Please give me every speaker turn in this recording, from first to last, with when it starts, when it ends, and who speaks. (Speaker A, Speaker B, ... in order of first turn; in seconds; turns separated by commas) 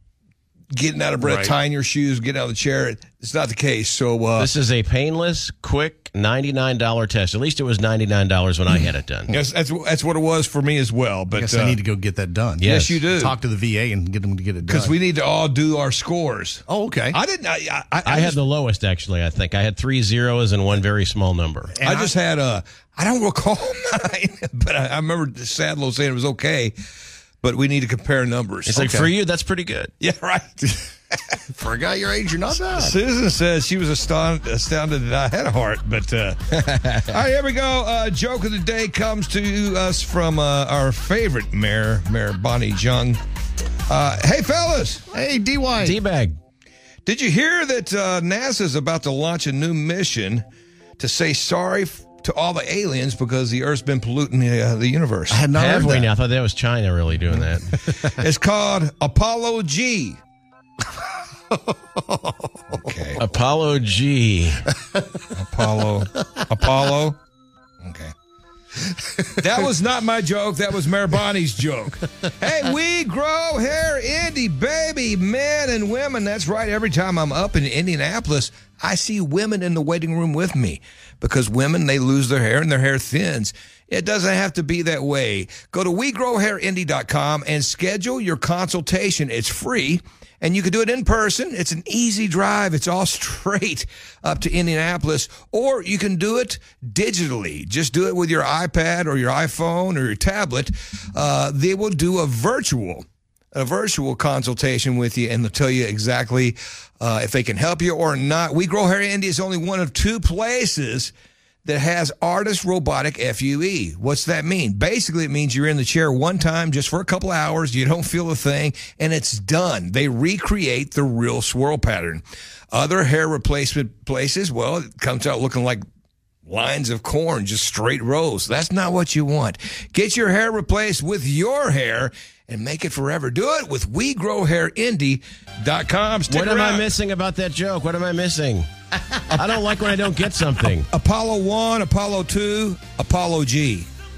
Speaker A: 0.7-4.5, Speaker B: 1.2-1.6, Speaker C: 4.4-9.3, Speaker A: 9.3-11.8, Speaker B: 11.3-14.9, Speaker A: 12.6-13.4, Speaker A: 14.7-18.4, Speaker B: 16.7-17.2, Speaker C: 18.1-21.7, Speaker B: 21.8-22.1, Speaker A: 21.8-26.8, Speaker A: 27.4-29.0, Speaker C: 28.7-29.9, Speaker B: 28.8-29.1, Speaker A: 30.0-30.8, Speaker B: 31.5-33.0, Speaker A: 32.7-43.2, Speaker A: 43.9-45.0, Speaker B: 45.1-46.0, Speaker C: 45.8-46.4, Speaker A: 47.1-50.5, Speaker A: 51.0-55.4, Speaker B: 55.3-56.1, Speaker C: 55.5-57.8, Speaker A: 58.0-60.2, Speaker B: 61.5-62.9, Speaker A: 62.7-63.2, Speaker C: 63.2-64.7, Speaker A: 65.3-67.2, Speaker A: 67.8-68.1, Speaker A: 69.3-111.1, Speaker A: 111.6-125.8, Speaker A: 126.5-136.9, Speaker C: 136.3-138.7, Speaker C: 139.3-140.9, Speaker A: 140.8-143.9